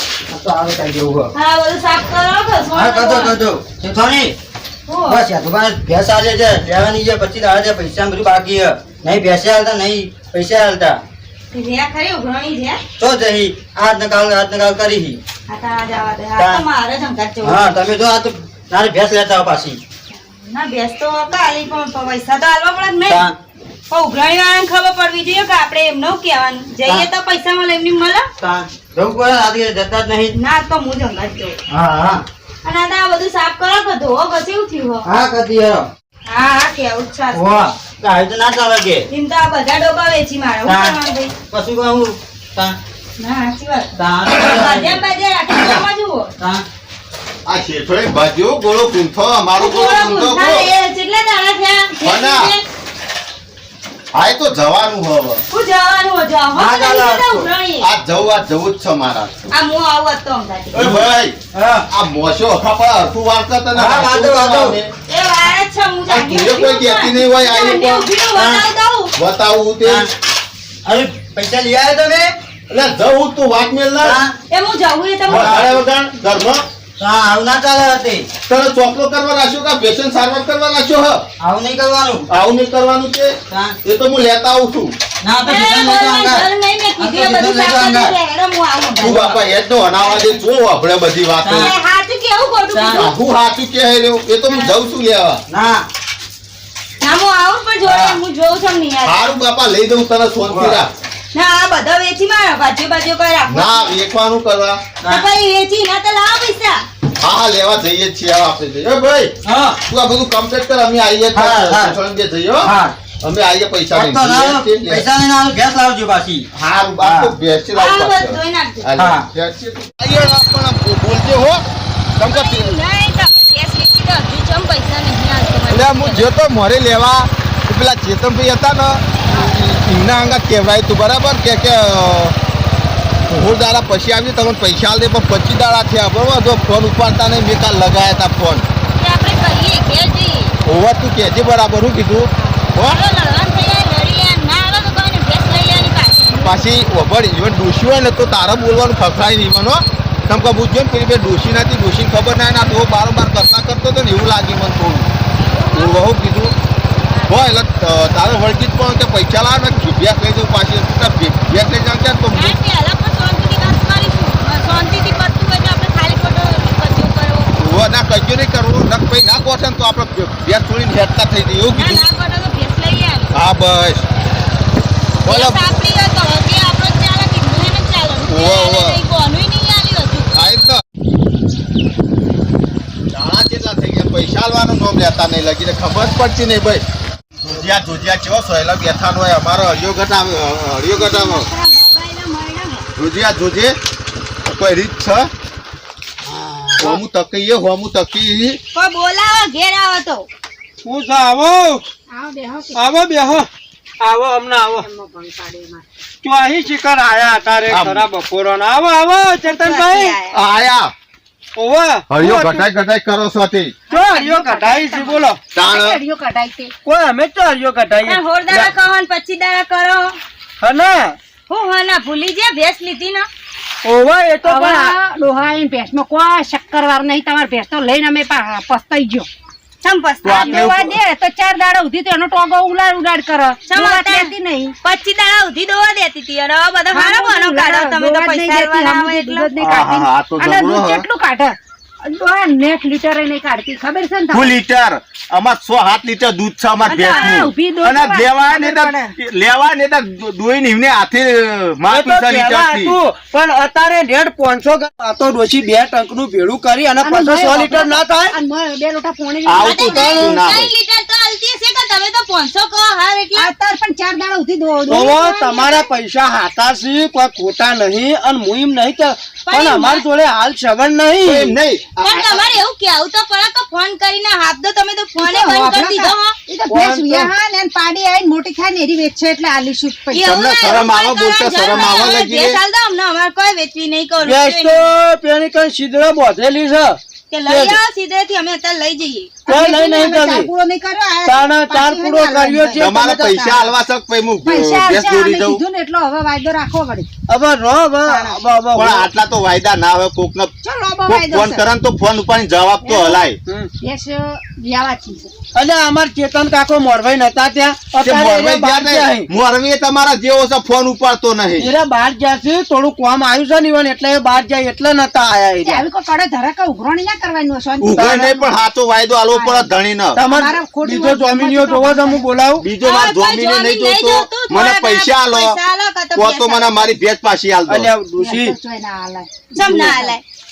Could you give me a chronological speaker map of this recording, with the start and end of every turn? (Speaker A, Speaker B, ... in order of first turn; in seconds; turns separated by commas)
Speaker A: 0.3-1.3, Speaker B: 1.3-3.4, Speaker A: 2.7-4.3, Speaker B: 4.9-5.3, Speaker A: 5.0-11.0, Speaker B: 11.5-12.8, Speaker A: 13.0-15.2, Speaker B: 15.5-17.8, Speaker A: 16.4-16.6, Speaker A: 17.4-19.8, Speaker B: 20.1-23.3, Speaker A: 23.1-23.3, Speaker B: 23.9-28.3, Speaker A: 28.4-30.3, Speaker B: 30.3-31.6, Speaker A: 31.7-32.2, Speaker B: 32.6-35.1, Speaker A: 35.0-35.9, Speaker B: 36.2-37.5, Speaker A: 37.3-39.1, Speaker B: 39.1-41.3, Speaker A: 40.6-42.8, Speaker B: 43.2-46.3, Speaker A: 44.0-45.0, Speaker A: 46.4-46.6, Speaker C: 47.5-50.7, Speaker B: 49.5-52.7, Speaker C: 52.0-52.5, Speaker C: 54.1-55.4, Speaker B: 55.5-57.9, Speaker A: 56.5-57.5, Speaker C: 57.8-59.3, Speaker B: 59.5-60.7, Speaker A: 60.7-61.9, Speaker C: 60.7-64.9, Speaker A: 63.7-64.8, Speaker B: 65.1-69.1, Speaker C: 66.1-68.1, Speaker A: 68.3-68.7, Speaker C: 69.1-70.1, Speaker A: 69.8-70.1, Speaker A: 70.8-72.3, Speaker C: 72.7-74.2, Speaker A: 74.0-74.3, Speaker B: 74.5-75.5, Speaker C: 75.3-76.6, Speaker A: 75.3-75.7, Speaker A: 77.0-78.3, Speaker C: 78.5-81.3, Speaker A: 81.4-82.2, Speaker C: 82.3-84.9, Speaker A: 83.5-83.8, Speaker A: 85.2-88.1, Speaker B: 85.4-89.2, Speaker C: 89.0-91.7, Speaker A: 89.0-89.4, Speaker A: 91.4-91.7, Speaker B: 91.5-93.1, Speaker A: 92.7-93.0, Speaker C: 92.9-95.4, Speaker B: 94.5-94.7, Speaker A: 95.5-95.9, Speaker B: 97.0-99.3, Speaker A: 97.8-98.2, Speaker C: 99.0-100.9, Speaker A: 100.5-100.8, Speaker B: 101.3-103.9, Speaker C: 103.5-104.8, Speaker A: 105.0-105.3, Speaker B: 105.0-106.8, Speaker C: 107.2-115.1, Speaker A: 109.4-109.8, Speaker A: 111.3-112.0, Speaker A: 112.6-112.9, Speaker A: 113.9-116.5, Speaker C: 116.5-121.6, Speaker A: 117.0-117.3, Speaker B: 117.7-119.0, Speaker A: 119.0-119.3, Speaker C: 122.2-122.7, Speaker B: 122.2-126.3, Speaker C: 125.7-132.3, Speaker C: 133.3-138.6, Speaker B: 139.0-140.6, Speaker C: 140.6-143.0, Speaker B: 142.9-146.6, Speaker C: 146.4-155.1, Speaker B: 155.4-156.0, Speaker C: 155.7-156.5, Speaker C: 157.3-162.6, Speaker B: 162.3-167.5, Speaker C: 167.6-172.0, Speaker B: 171.7-173.3, Speaker C: 173.3-174.0, Speaker C: 175.2-175.6, Speaker B: 175.2-180.3, Speaker C: 178.2-179.0, Speaker C: 180.3-180.8, Speaker C: 183.1-186.8, Speaker C: 187.4-191.5, Speaker B: 190.9-192.9, Speaker C: 192.9-193.8, Speaker C: 194.4-195.3, Speaker A: 196.3-196.7, Speaker C: 196.8-198.6, Speaker B: 198.7-200.3, Speaker D: 200.8-201.8, Speaker E: 202.1-202.8, Speaker D: 202.7-203.5, Speaker D: 204.0-204.8, Speaker E: 204.8-205.8, Speaker D: 206.2-210.1, Speaker C: 207.7-208.0, Speaker B: 209.4-210.4, Speaker C: 210.3-210.9, Speaker D: 211.6-212.7, Speaker C: 212.1-213.7, Speaker E: 213.9-216.7, Speaker D: 213.9-215.4, Speaker C: 215.5-216.0, Speaker D: 216.8-218.7, Speaker B: 218.0-220.2, Speaker D: 220.6-221.2, Speaker B: 221.5-223.3, Speaker D: 223.8-224.9, Speaker E: 224.4-229.3, Speaker B: 229.8-230.7, Speaker C: 230.2-230.9, Speaker E: 230.3-234.7, Speaker B: 233.7-234.3, Speaker B: 234.8-239.5, Speaker E: 236.9-244.5, Speaker C: 239.6-241.1, Speaker C: 244.3-252.9, Speaker E: 246.8-249.1, Speaker D: 251.9-258.3, Speaker E: 257.0-260.4, Speaker C: 259.4-260.7, Speaker B: 259.6-263.5, Speaker E: 263.4-265.9, Speaker D: 264.9-271.5, Speaker B: 269.4-270.0, Speaker C: 271.2-272.5, Speaker B: 272.0-276.3, Speaker E: 275.2-280.7, Speaker D: 276.7-277.3, Speaker B: 280.1-285.0, Speaker C: 280.2-282.6, Speaker D: 284.2-287.8, Speaker B: 287.3-289.4, Speaker D: 289.5-290.5, Speaker E: 289.5-293.7, Speaker D: 291.2-293.1, Speaker C: 292.8-295.6, Speaker E: 294.4-297.1, Speaker D: 297.3-299.1, Speaker E: 298.1-298.4, Speaker C: 298.7-300.5, Speaker E: 300.6-301.6, Speaker C: 301.1-303.4, Speaker E: 302.8-303.3, Speaker E: 303.8-305.3, Speaker D: 305.5-309.3, Speaker C: 308.0-311.7, Speaker D: 311.6-315.8, Speaker E: 315.6-318.5, Speaker C: 317.8-320.2, Speaker D: 318.0-318.3, Speaker E: 319.3-319.7, Speaker D: 320.1-322.6, Speaker E: 320.3-322.3, Speaker C: 322.6-325.6, Speaker B: 322.8-326.9, Speaker C: 326.1-327.9, Speaker D: 327.7-328.6, Speaker E: 328.2-330.2, Speaker B: 329.5-330.2